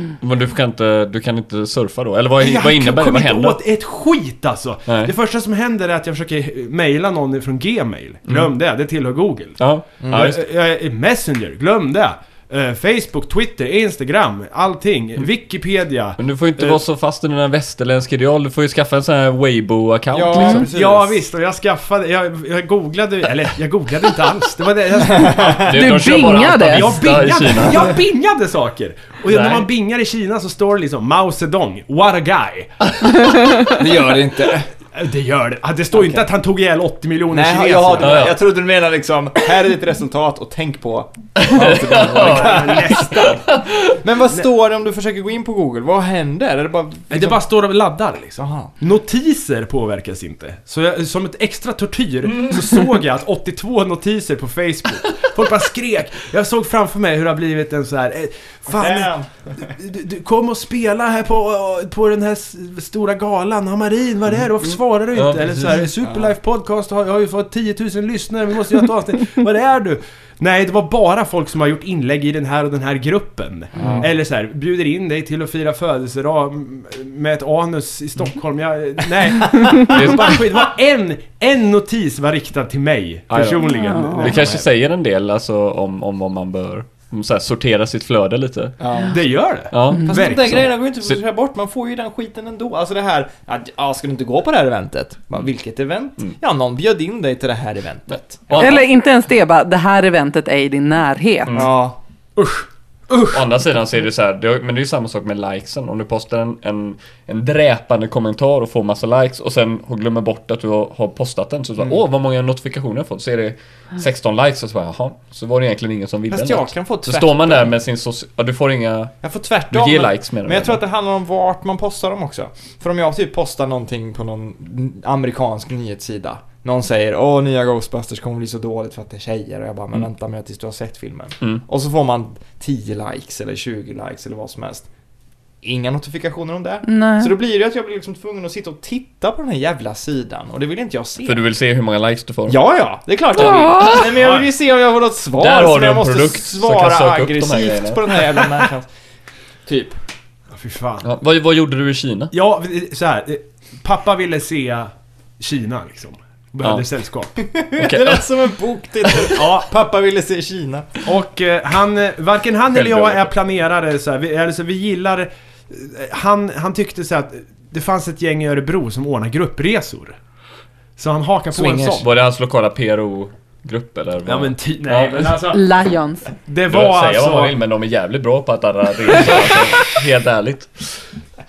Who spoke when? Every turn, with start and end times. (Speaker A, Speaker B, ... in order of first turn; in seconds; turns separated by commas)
Speaker A: 0.2-3.6, Speaker B: 2.4-16.8, Speaker A: 4.9-5.1, Speaker A: 9.6-10.4, Speaker C: 10.0-10.3, Speaker A: 16.2-20.7, Speaker C: 20.1-21.2, Speaker D: 20.3-20.7, Speaker B: 20.7-25.9, Speaker C: 25.1-25.6, Speaker A: 25.4-28.0, Speaker D: 25.6-27.0, Speaker B: 26.6-32.9, Speaker A: 29.3-29.6, Speaker D: 33.3-33.6, Speaker C: 33.7-34.7, Speaker B: 34.9-38.3, Speaker C: 35.9-36.3, Speaker C: 37.3-43.4, Speaker A: 38.0-38.4, Speaker A: 41.4-44.0, Speaker B: 41.8-43.4, Speaker C: 44.0-47.4, Speaker B: 47.1-84.6, Speaker C: 48.4-48.7, Speaker C: 58.7-59.5, Speaker A: 65.2-65.8, Speaker C: 66.0-66.3, Speaker C: 73.8-74.1, Speaker A: 73.8-74.1, Speaker A: 79.9-80.4, Speaker A: 83.3-88.8, Speaker D: 83.7-84.2, Speaker C: 84.0-84.6, Speaker C: 88.8-89.2, Speaker B: 89.1-90.7, Speaker A: 89.7-91.2, Speaker D: 89.9-90.2, Speaker C: 90.1-98.8, Speaker A: 98.5-98.8, Speaker D: 98.6-101.5, Speaker C: 101.5-102.0, Speaker B: 102.4-103.4, Speaker A: 103.3-119.2, Speaker C: 116.3-117.7, Speaker C: 119.2-134.9, Speaker A: 119.7-120.8, Speaker C: 135.6-141.4, Speaker D: 136.8-137.3, Speaker A: 141.2-142.6, Speaker C: 142.5-148.9, Speaker A: 143.3-144.4, Speaker D: 143.4-144.1, Speaker B: 144.2-144.4, Speaker A: 145.4-148.4, Speaker C: 149.7-150.0, Speaker B: 150.5-151.1, Speaker A: 151.0-152.3, Speaker B: 152.3-157.3, Speaker C: 157.4-160.9, Speaker A: 157.8-158.3, Speaker B: 159.3-159.7, Speaker B: 161.1-170.2, Speaker A: 162.7-163.3, Speaker B: 171.0-172.1, Speaker C: 171.5-172.0, Speaker A: 171.9-175.5, Speaker B: 174.2-175.6, Speaker D: 175.5-176.3, Speaker B: 176.5-177.5, Speaker A: 176.7-181.0